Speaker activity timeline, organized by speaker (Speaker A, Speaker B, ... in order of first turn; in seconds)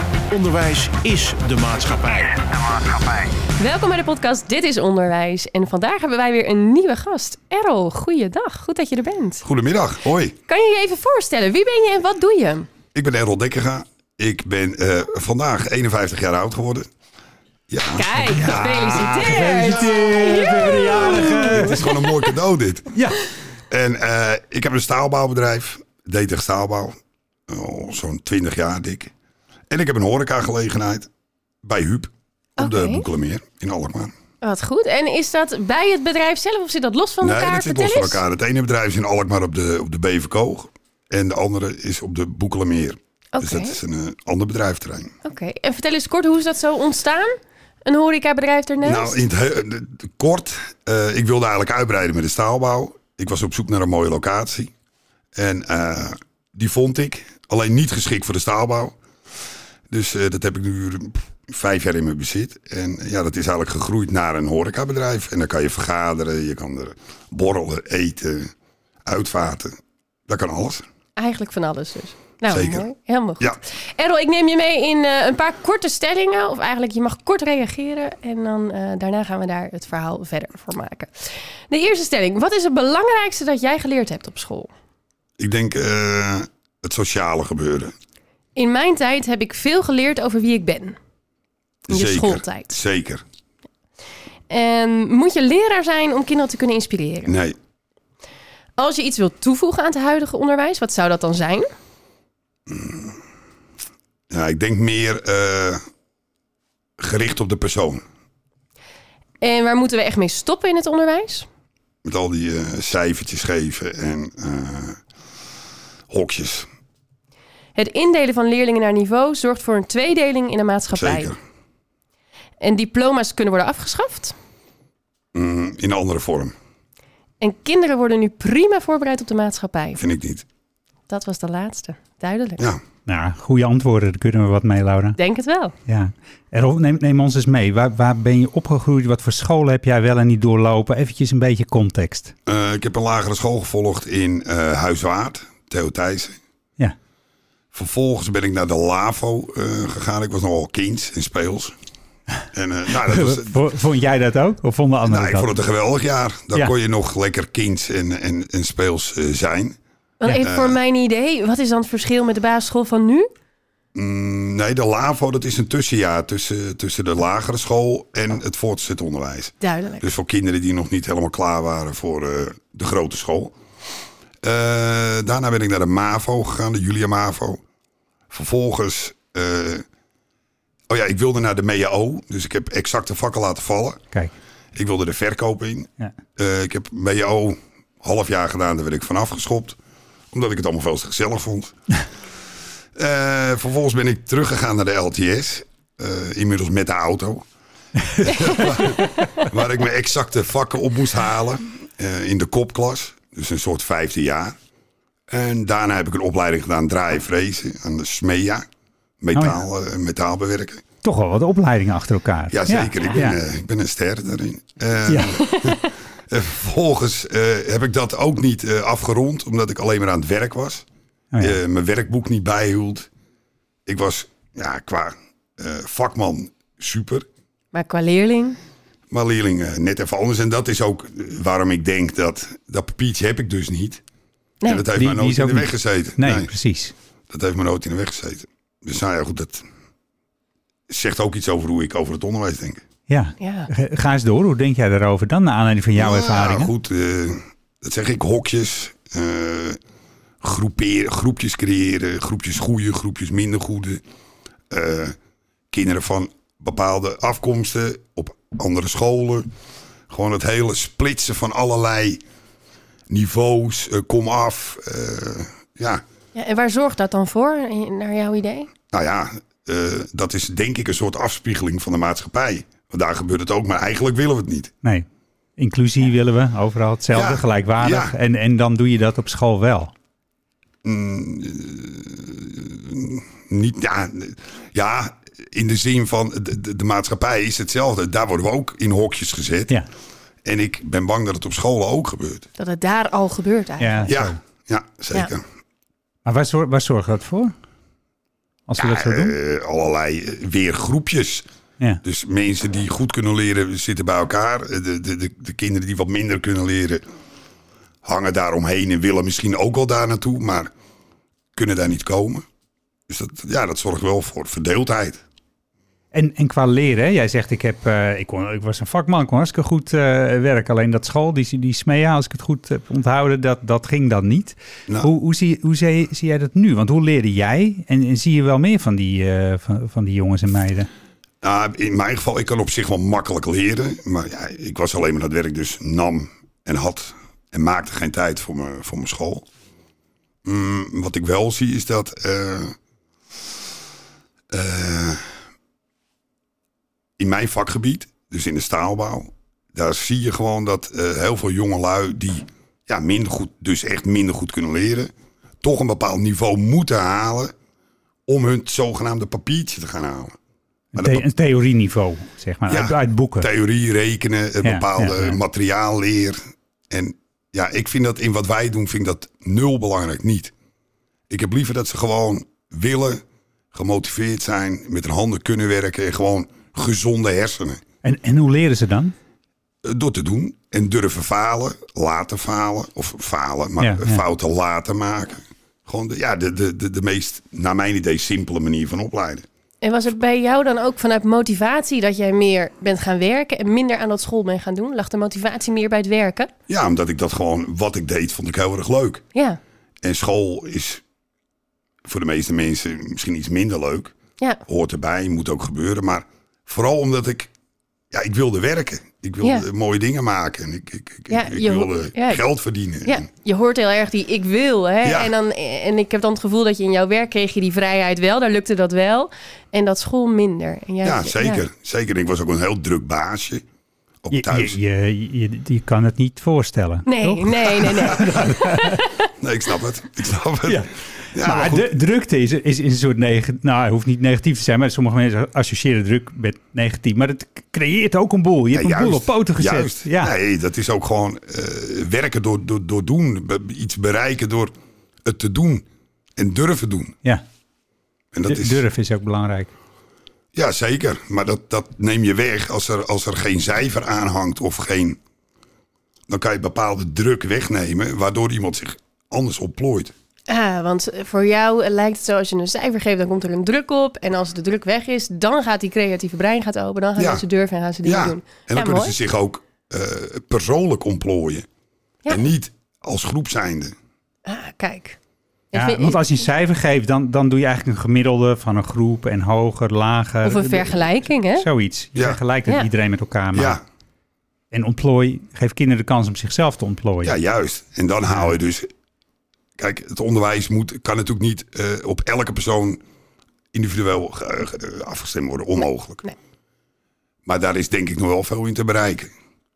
Speaker A: 0.3-2.5
Speaker B: 3.6-9.4, 10.5-12.7, 17.9-22.2, 32.6-33.0, 34.4-38.2, 43.3-43.8, 45.2-49.2, 71.2-84.7, 88.5-91.0, 91.9-92.8, 94.5-97.3, 98.8-101.7, 109.4-111.5, 117.8-121.3, 122.6-124.3, 127.4-130.0, 131.1-132.7, 135.2-135.7, 160.2-163.3, 169.6-170.1, 215.4-215.8, 227.7-228.6, 243.4-243.7, 266.3-268.7, 292.6-294.1, 389.8-396.5, 399.3-399.6, 411.3-412.4, 413.0-421.6, 427.1-429.2, 460.5-469.1, 474.4-475.2, 475.7-476.3, 480.4-481.6
Speaker C: 9.4-10.3, 12.9-16.9, 17.7-18.6, 20.9-22.9, 23.7-27.0, 27.5-29.1, 29.7-31.1, 31.6-34.1, 37.2-45.1, 48.8-54.7, 55.3-59.0, 59.9-68.5, 69.0-70.8, 72.5-72.8, 85.4-87.9, 91.9-93.2, 97.3-97.6, 102.7-103.2, 104.3-105.8, 107.0-108.0, 112.0-115.0, 116.1-116.7, 120.9-121.3, 125.3-126.5, 130.0-130.4, 142.4-146.4, 147.7-151.7, 152.5-153.6, 155.0-159.8, 160.4-160.8, 163.9-173.5, 174.4-177.6, 178.3-179.8, 180.9-184.0, 184.7-189.8, 190.3-191.7, 192.9-197.4, 198.2-204.6, 205.3-208.6, 209.2-210.8, 212.5-220.8, 221.4-223.1, 223.8-227.2, 229.1-234.0, 234.6-236.5, 237.3-239.6, 240.9-242.8, 246.0-249.8, 250.4-254.0, 254.7-255.2, 255.7-259.5, 260.1-262.2, 263.1-266.0, 268.9-274.7, 277.1-278.1, 280.8-289.8, 290.4-292.5, 294.1-295.4, 298.8-301.4, 302.0-307.0, 308.0-310.7, 311.5-312.4, 313.1-315.2, 331.4-339.4, 340.4-342.8, 344.5-345.3, 347.2-357.5, 358.3-360.3, 360.9-361.2, 362.7-366.4, 366.9-370.5, 371.3-377.8, 379.8-389.4, 396.7-399.2, 400.0-401.0, 402.0-404.1, 404.6-407.5, 408.1-413.3, 415.0-415.3, 421.0-423.6, 424.2-424.8, 429.4-431.9, 438.7-444.7, 445.2-445.8, 446.4-447.1, 448.3-448.8, 450.5-455.2, 456.3-460.1, 467.2-467.4, 468.0-471.6, 472.3-473.9, 483.5-483.8, 487.2-488.9, 489.8-493.0, 493.7-496.2, 497.4-499.3
Speaker D: 18.2-21.8, 133.1-135.2, 135.9-142.3, 153.1-155.5, 198.1-199.4, 209.3-209.6, 211.0-213.4, 215.1-215.7, 221.3-221.6, 234.9-236.9, 243.1-246.7, 275.6-279.9, 293.8-294.4, 296.2-297.5, 298.7-299.3, 316.1-330.9, 360.9-363.5, 364.6-365.4, 378.0-379.1, 383.8-384.2, 424.3-429.0, 430.6-440.3, 448.5-449.7, 475.7-483.8, 484.7-487.3